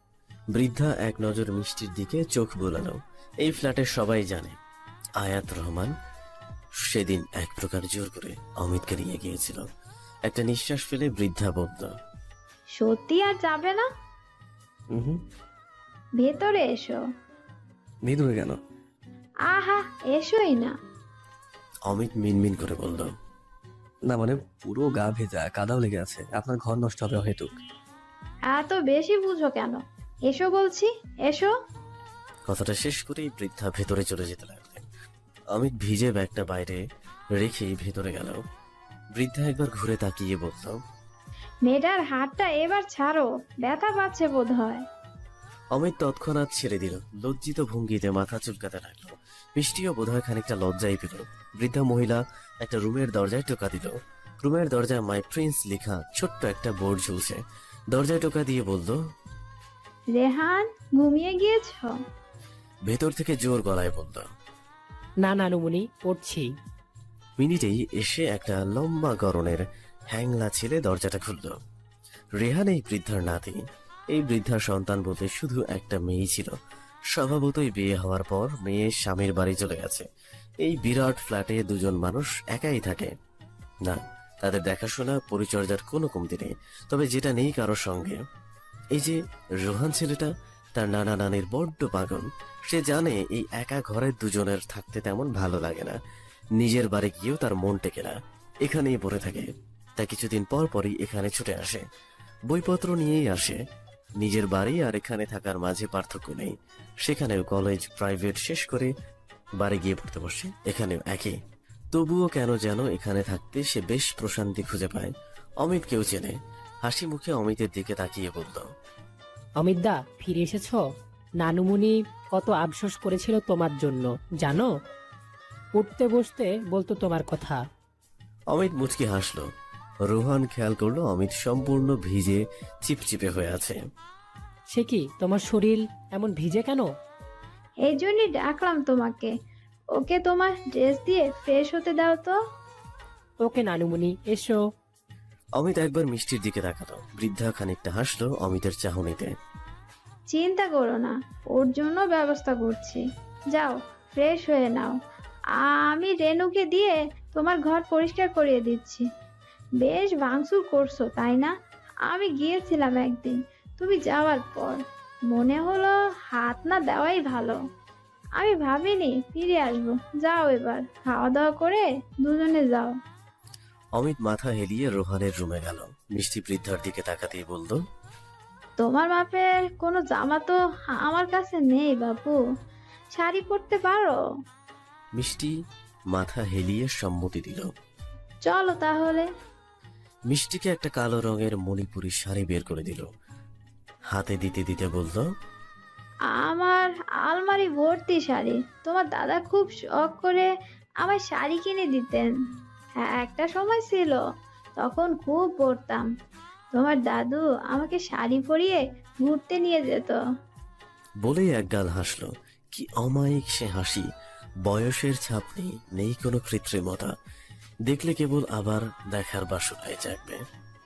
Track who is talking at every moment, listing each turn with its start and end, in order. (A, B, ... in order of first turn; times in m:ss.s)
0:00.5-0:04.6 A
0:05.2-0:05.9 A
0:06.8-0:09.6 A
0:10.2-0:11.9 A
0:12.8-0:13.9 B
0:14.9-0:15.2 C
0:16.2-0:17.0 B
0:18.0-0:18.6 C
0:19.5-0:20.7 B
0:21.9-0:23.1 A
0:24.1-0:27.5 C
0:28.5-0:31.5 B
0:32.5-0:34.9 A
0:35.5-0:36.8 A
0:37.4-0:38.4 A
0:39.2-0:40.8 A
0:41.7-0:44.8 B
0:45.7-0:57.4 A
0:57.9-0:59.0 A
1:00.1-1:02.0 B
1:02.9-1:04.2 A
1:05.2-1:06.5 D
1:07.4-1:11.6 A
1:12.4-1:13.6 A
1:14.1-1:16.6 A
1:17.1-1:20.1 A
1:20.6-1:23.1 A
1:23.8-1:28.2 A
1:28.9-1:36.0 A
1:36.6-1:41.8 A
1:42.5-1:43.6 A
1:44.2-1:48.9 A
1:49.6-1:51.4 A
1:51.9-1:58.7 A
1:59.6-2:00.8 D
2:01.4-2:04.7 D
2:05.8-2:07.6 D
2:08.5-2:09.5 A
2:10.1-2:13.8 A
2:14.7-2:16.9 D
2:17.8-2:19.3 B
2:20.0-2:22.4 B
2:23.4-2:24.6 D
2:25.6-2:29.3 A
2:30.3-2:33.0 B
2:33.5-2:34.9 B
2:35.6-2:39.1 B
2:39.8-2:41.5 B
2:42.1-2:47.6 B
2:48.4-2:52.9 B
2:54.0-2:57.8 A
2:58.8-3:02.4 B
3:03.1-3:04.2 B
3:05.2-3:05.5 A
3:06.1-3:07.7 A
3:08.4-3:09.3 B
3:10.3-3:13.1 A
3:14.1-3:15.2 A
3:16.4-3:20.5 B
3:21.0-3:22.3 B
3:23.0-3:24.2 B
3:24.8-3:26.1 B
3:26.7-3:30.2 B
3:31.2-3:34.0 A
3:34.7-3:37.1 A
3:37.9-3:40.4 A